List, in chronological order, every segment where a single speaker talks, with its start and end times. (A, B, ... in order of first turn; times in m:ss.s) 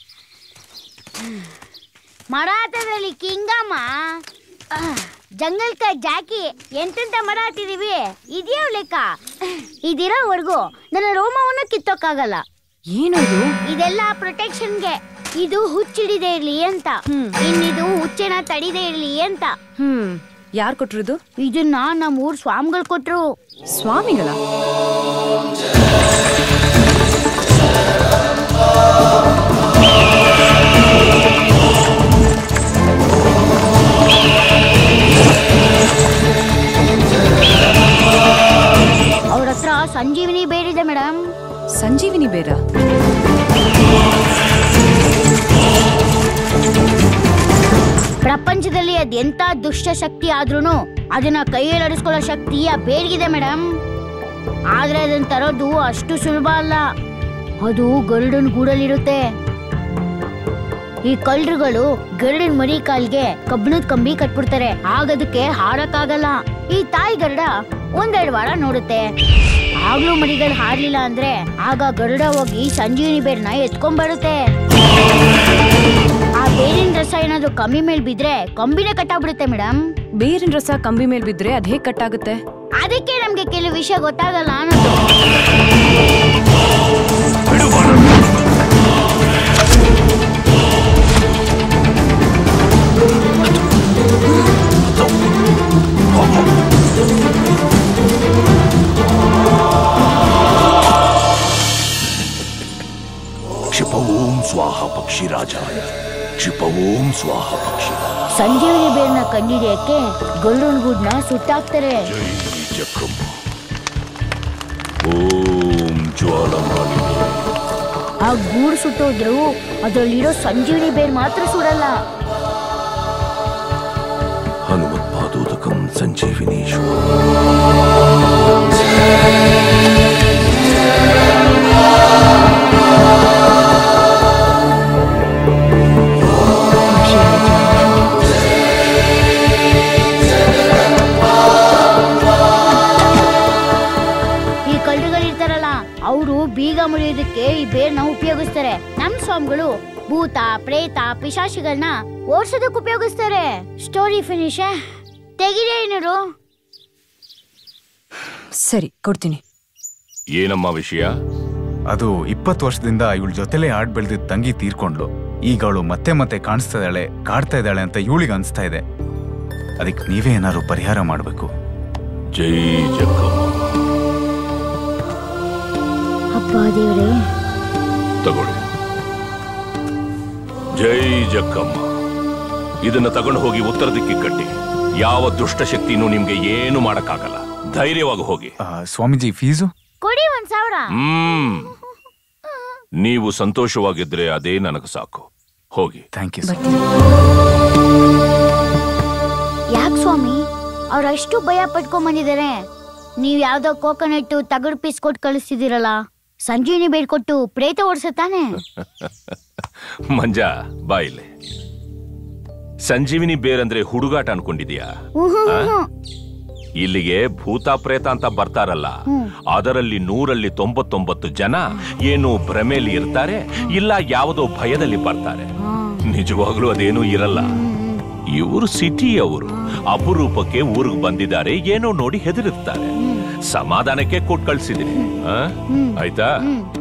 0:02.3-0:04.2 A
0:04.7-0:12.4 A
0:12.9-0:13.5 B
0:13.7-0:19.5 A
0:17.1-0:17.4 B
0:19.8-0:21.2 B
0:21.4-0:23.3 A
0:23.7-0:24.4 B
0:39.3-0:41.2 A
0:41.7-0:42.6 B
0:48.2-0:53.6 A
0:54.8-0:56.8 A
0:57.6-0:59.2 A
1:01.1-1:09.0 A
1:09.8-1:14.4 A
1:16.4-1:19.8 A
1:20.2-1:22.4 B
1:22.8-1:25.0 A
1:27.6-1:28.0 C
1:35.0-1:35.3 C
1:36.1-1:36.5 C
1:43.7-1:48.1 C
1:48.3-1:52.1 A
1:52.1-1:53.4 C
1:55.1-1:57.4 C
1:58.2-2:01.9 A
2:04.7-2:07.1 C
2:16.9-2:18.0 B
2:24.7-2:34.8 A
2:35.4-2:36.2 A
2:38.6-2:39.4 B
2:40.4-2:41.1 C
2:41.9-2:48.8 D
2:49.8-2:51.5 D
2:52.4-2:53.6 C
2:56.4-2:57.2 A
2:58.2-2:58.6 C
3:00.8-3:01.9 C
3:02.8-3:08.6 C
3:08.6-3:09.7 D
3:10.0-3:11.0 A
3:11.0-3:11.7 C
3:13.0-3:16.1 C
3:16.1-3:16.6 D
3:16.5-3:16.8 B
3:19.8-3:20.4 A
3:20.9-3:22.6 A
3:23.2-3:28.6 A
3:28.8-3:31.3 C
3:32.8-3:34.9 C
3:35.2-3:35.9 A
3:35.5-3:35.7 C
3:36.8-3:38.9 C
3:39.1-3:39.3 A
3:39.5-3:45.5 C
3:45.6-3:46.0 A
3:46.1-3:47.6 C
3:47.3-3:48.0 A
3:48.4-3:52.9 C
3:53.0-3:53.3 A
3:53.5-3:56.3 C
3:55.7-3:56.7 A